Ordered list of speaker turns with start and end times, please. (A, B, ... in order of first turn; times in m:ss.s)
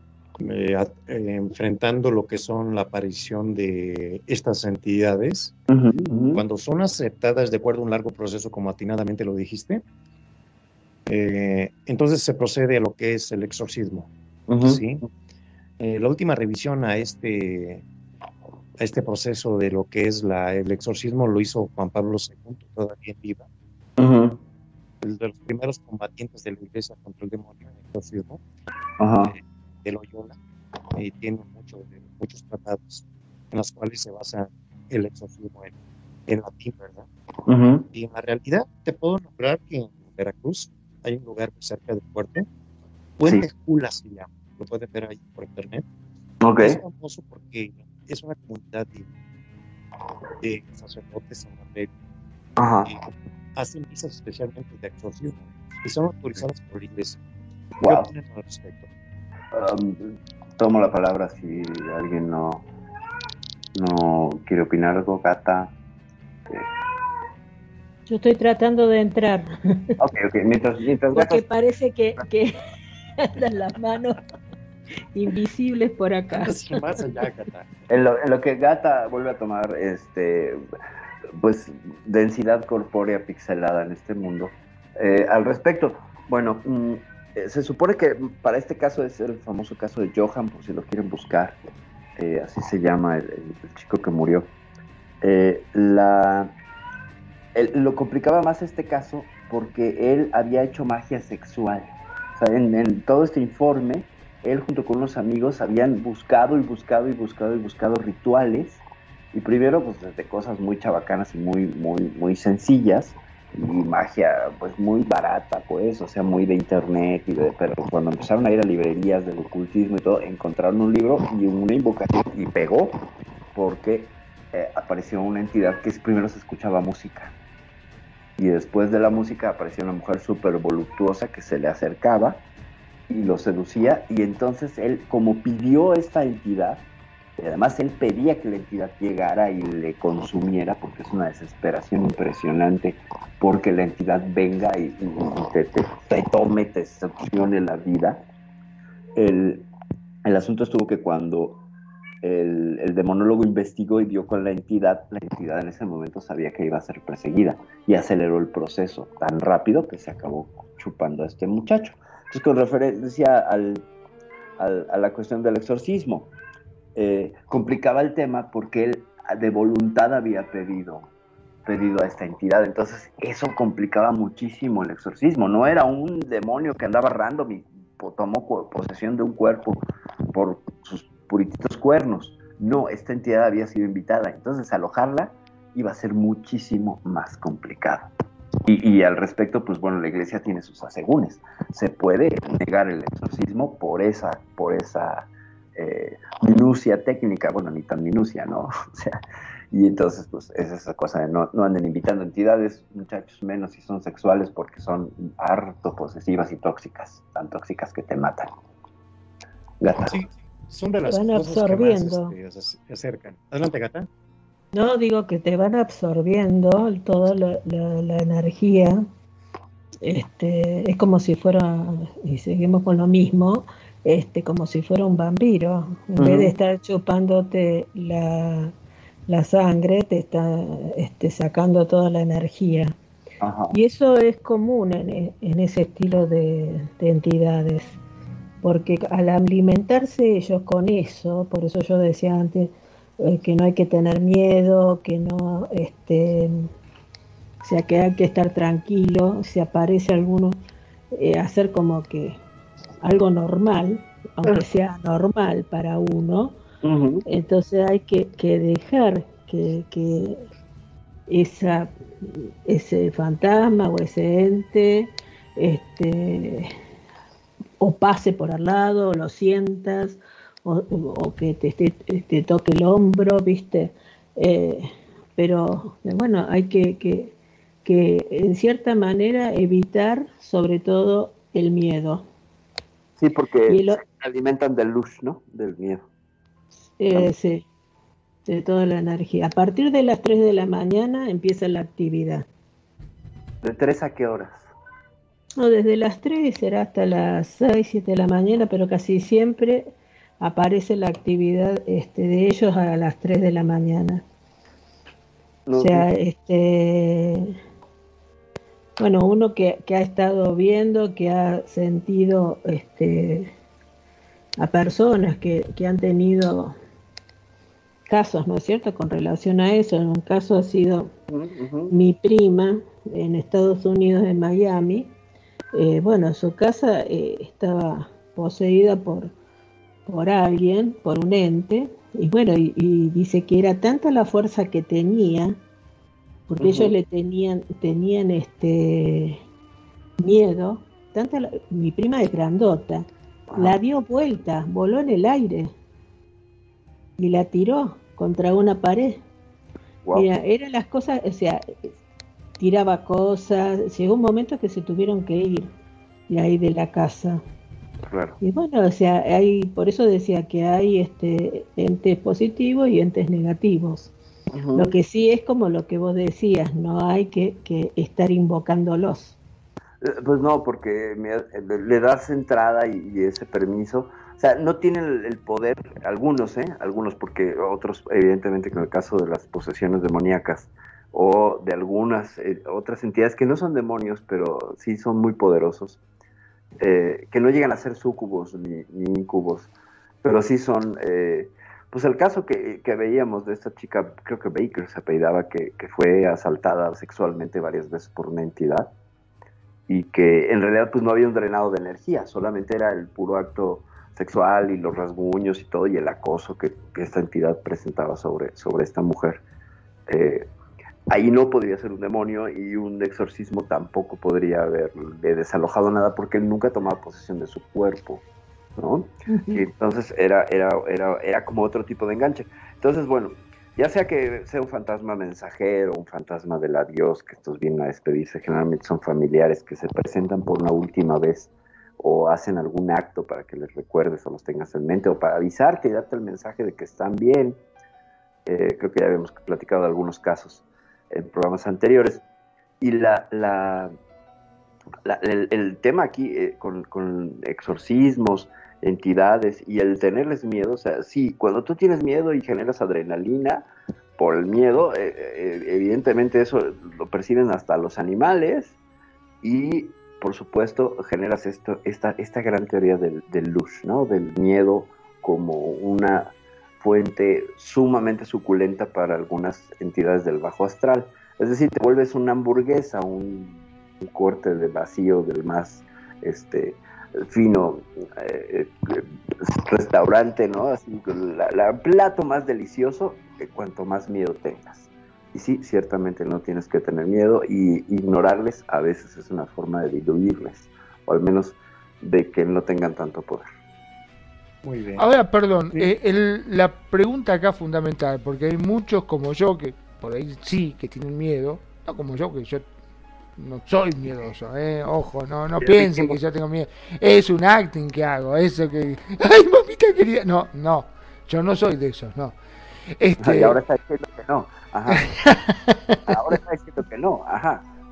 0:00.4-0:05.5 A
0:05.7-0:06.4 B
0:06.3-0:09.8 A
0:11.0-0:14.1 A
0:14.5-0:15.0 B
0:14.6-0:15.0 A
0:15.8-0:17.8 A
0:18.8-0:23.4 A
0:24.0-0:24.4 B
0:25.0-0:28.4 A
0:29.0-0:29.4 B
0:29.2-0:30.4 A
0:30.9-0:35.7 A
0:36.3-0:37.1 A
0:37.4-0:37.8 B
0:37.9-0:42.5 A
0:43.2-0:45.8 A
0:46.4-0:46.8 B
0:46.6-0:49.1 A
0:50.4-0:51.9 A
0:52.6-0:52.9 B
0:52.8-0:57.2 A
0:57.8-0:58.1 B
0:57.8-0:58.9 A
0:59.5-1:02.6 B
1:03.7-1:05.7 B
1:08.1-1:09.9 C
1:10.0-1:11.4 B
1:11.1-1:12.5 C
1:13.2-1:14.2 C
1:15.1-1:16.6 C
1:16.3-1:17.7 A
1:17.9-1:20.6 B
1:21.3-1:31.6 B
1:32.2-1:34.5 B
1:35.2-1:36.5 B
1:37.5-2:07.3 B
2:08.4-2:12.4 B
2:13.1-2:16.8 B
2:17.4-2:28.2 B
2:29.1-2:29.7 B
2:30.2-2:31.6 B
2:32.2-2:43.8 B
2:44.6-2:46.3 B
2:47.0-2:51.1 B
2:51.6-3:08.1 B
3:08.6-3:19.2 B
3:19.7-3:28.5 B
3:29.8-3:30.2 B
3:30.1-3:34.1 A
3:31.0-3:32.3 C
3:34.7-3:39.0 C
3:40.0-3:48.7 C
3:46.2-3:46.5 B
3:49.3-3:52.9 C
3:53.4-3:53.8 B
3:53.7-3:58.0 C
3:58.6-4:06.7 C
4:07.6-4:10.6 C
4:11.1-4:12.4 C
4:13.0-4:16.6 C
4:16.8-4:17.2 B
4:17.2-4:20.4 C
4:21.3-4:26.7 C
4:27.8-4:42.2 C
4:43.2-4:46.0 B
4:43.7-4:44.0 C
4:47.0-4:47.6 C
4:48.4-4:52.4 C
4:53.6-4:54.7 B
4:55.6-5:04.2 C
5:05.6-5:06.1 B
5:05.8-5:07.6 C
5:09.0-5:13.5 C
5:14.6-5:16.7 C
5:18.1-5:21.1 C
5:21.3-5:21.9 B
5:21.9-5:25.1 C
5:25.7-5:29.3 C
5:30.0-5:35.6 C
5:36.5-5:39.4 C
5:36.6-5:36.9 B
5:40.2-5:45.7 C
5:43.5-5:43.8 B
5:47.2-5:49.2 C
5:50.0-5:50.3 B
5:50.1-5:51.9 C
5:52.6-5:55.7 C
5:56.3-5:57.4 C
5:58.1-5:58.4 B
5:58.4-6:04.1 C
6:04.5-6:04.9 B
6:04.7-6:09.4 C
6:10.0-6:26.0 B
6:26.8-6:29.7 B
6:30.2-6:38.9 B
6:39.9-6:49.4 B
6:50.1-6:50.5 B
6:51.1-6:58.2 B
6:58.8-7:17.6 B
6:59.3-6:59.6 C
7:18.4-7:22.2 B
7:22.8-7:23.9 B
7:25.0-7:33.7 B
7:34.2-7:38.8 B
7:39.4-8:13.4 B
8:14.6-8:15.1 A
8:15.0-8:22.7 D
8:23.4-8:32.4 D
8:25.6-8:26.2 B
8:33.0-8:33.6 D
8:33.2-8:35.0 B
8:34.9-8:36.2 D
8:36.1-8:37.6 B